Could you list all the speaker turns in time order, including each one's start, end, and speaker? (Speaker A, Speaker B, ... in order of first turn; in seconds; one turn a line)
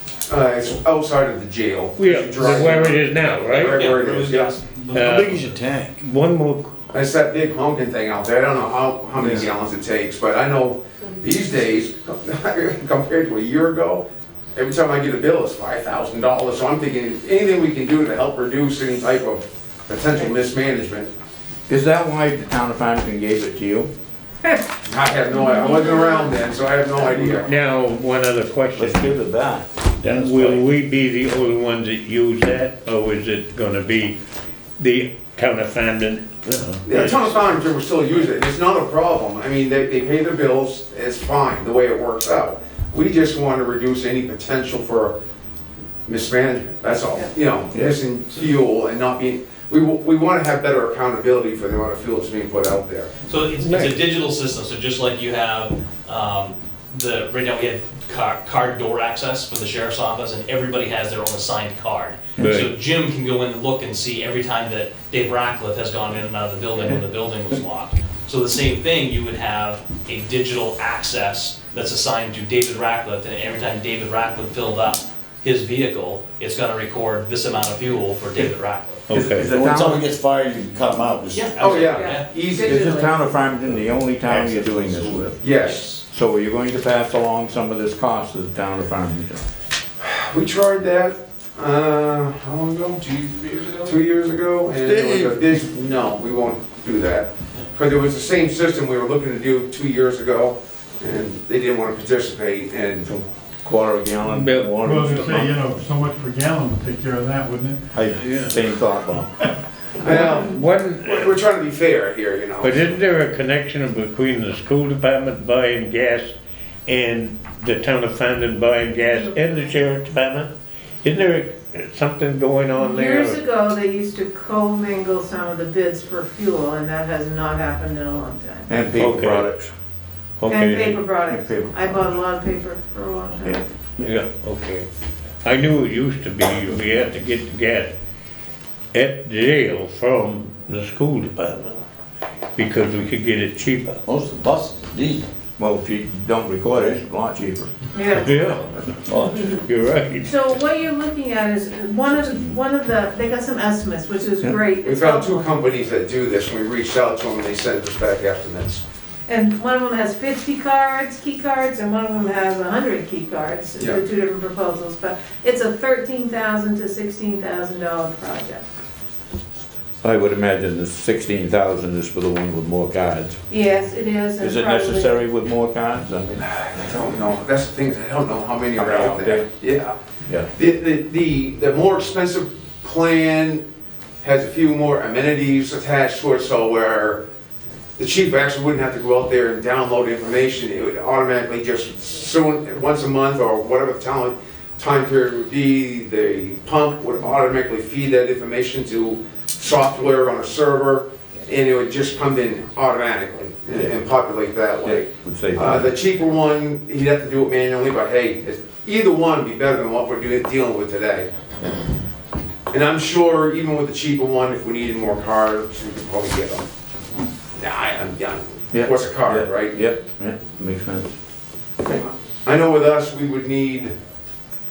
Speaker A: 0.3-3.0
Speaker B: 2.0-3.8
Speaker C: 2.4-5.2
Speaker A: 3.6-4.5
Speaker B: 4.9-5.4
Speaker D: 4.9-6.0
Speaker B: 6.0-6.7
Speaker A: 6.9-21.1
Speaker E: 21.7-23.9
Speaker A: 24.9-27.5
Speaker F: 25.4-26.2
Speaker B: 27.4-29.2
Speaker E: 28.8-29.7
Speaker D: 30.0-30.7
Speaker B: 30.0-34.2
Speaker B: 34.8-37.5
Speaker D: 36.5-36.8
Speaker A: 36.9-45.1
Speaker A: 46.1-53.1
Speaker C: 53.3-79.1
Speaker B: 53.6-54.0
Speaker E: 62.4-62.6
Speaker B: 62.4-62.7
Speaker B: 79.1-79.5
Speaker E: 79.1-80.0
Speaker D: 79.3-82.0
Speaker C: 81.3-82.3
Speaker A: 81.6-82.8
Speaker F: 82.0-83.1
Speaker E: 82.6-85.4
Speaker D: 84.3-85.3
Speaker A: 85.4-85.8
Speaker C: 85.6-86.0
Speaker E: 86.0-89.5
Speaker A: 90.0-93.0
Speaker C: 93.1-93.9
Speaker A: 93.9-103.2
Speaker D: 94.7-95.6
Speaker E: 103.6-105.6
Speaker B: 104.3-104.8
Speaker G: 104.8-107.8
Speaker E: 107.9-109.3
Speaker B: 108.2-108.6
Speaker A: 110.0-112.9
Speaker B: 110.0-111.4
Speaker B: 112.6-116.3
Speaker B: 116.9-120.5
Speaker B: 121.0-123.4
Speaker F: 122.8-128.7
Speaker E: 128.7-129.7
Speaker B: 129.0-129.5
Speaker B: 130.4-130.9
Speaker F: 130.5-133.6
Speaker E: 130.5-132.1
Speaker E: 133.4-134.1
Speaker B: 134.0-134.9
Speaker B: 135.4-137.9
Speaker B: 138.9-141.8
Speaker B: 142.6-144.0
Speaker D: 144.0-145.3
Speaker E: 145.6-147.7
Speaker D: 146.7-147.0
Speaker F: 147.9-148.3
Speaker B: 148.1-150.5
Speaker D: 149.1-149.6
Speaker F: 150.2-155.4
Speaker A: 154.8-158.8
Speaker F: 159.3-168.7
Speaker E: 170.0-173.4
Speaker F: 173.5-175.1
Speaker E: 174.4-176.4
Speaker A: 176.4-179.9
Speaker E: 178.8-179.5
Speaker A: 180.5-183.6
Speaker A: 184.2-187.2
Speaker A: 188.0-211.3
Speaker E: 204.8-205.9
Speaker A: 212.7-216.7
Speaker A: 217.6-219.8
Speaker E: 218.7-221.1
Speaker A: 221.9-224.0